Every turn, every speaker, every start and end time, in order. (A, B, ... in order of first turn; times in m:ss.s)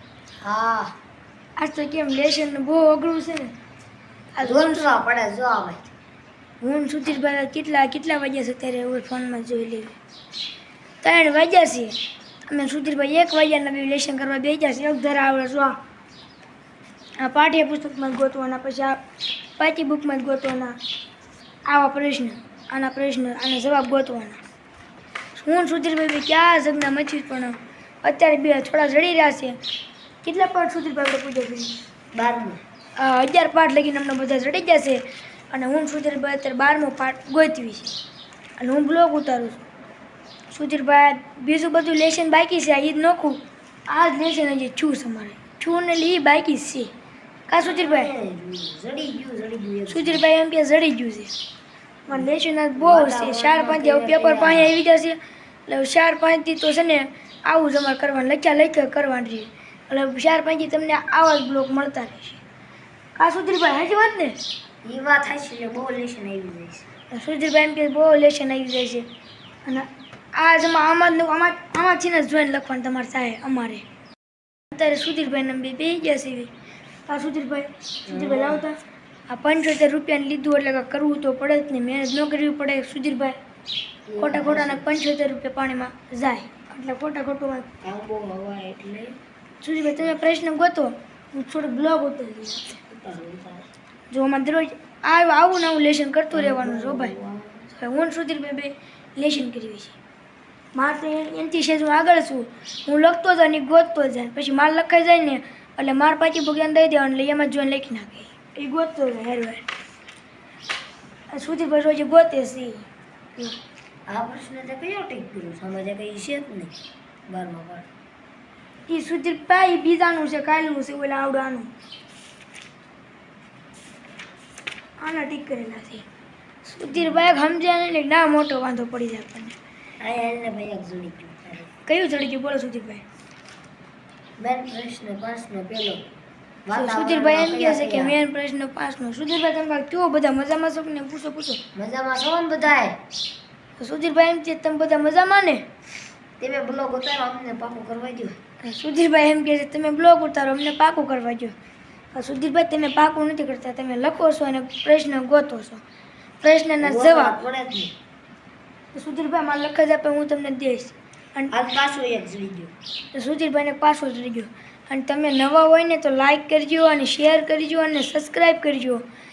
0:00.4-0:01.0 A
0:01.6-0:03.5 B
0:04.3-0:05.0 B
0:04.4-0:05.9 A
0:06.6-0:09.9 B
0:11.0-0:15.8 B
0:17.2-0:19.0 B
0:19.6-0:20.8 B
0:21.7-0:24.4 B
0:25.3-0:29.6 B
0:30.2-0:31.8 B
0:32.1-0:32.6 A
0:33.0-0:37.9 B
0:38.6-0:39.6 B
0:40.5-0:46.9 B
0:47.5-0:48.1 B
0:47.6-0:50.2 A
0:49.9-0:51.3 B
0:52.1-0:54.7 A
0:52.1-1:02.4 B
1:03.2-1:04.4 B
1:04.8-1:06.9 A
1:07.1-1:09.0 B
1:09.6-1:13.8 B
1:14.7-1:16.5 B
1:17.1-1:18.8 B
1:18.1-1:18.6 A
1:19.3-1:23.4 B
1:24.1-1:24.8 A
1:24.2-1:27.7 B
1:27.8-1:29.2 A
1:29.6-1:32.8 B
1:32.9-1:33.7 A
1:34.1-1:37.1 B
1:36.3-1:37.7 A
1:37.7-1:40.0 B
1:40.7-1:49.6 B
1:51.3-1:52.8 B
1:54.1-1:56.8 A
1:57.3-1:57.9 A
1:58.9-2:01.7 B
2:05.0-2:06.0 B
2:06.6-2:09.5 B
2:06.9-2:07.4 A
2:10.0-2:11.7 A
2:11.8-2:13.0 B
2:14.4-2:16.1 A
2:16.6-2:18.2 A
2:16.7-2:21.6 B
2:21.7-2:23.0 A
2:23.8-2:25.6 B
2:26.4-2:28.4 A
2:28.6-2:31.5 B
2:32.1-2:35.8 B
2:36.4-2:37.4 B
2:36.8-2:37.9 A
2:38.9-2:41.5 B
2:41.5-2:42.7 A
2:43.1-2:49.0 B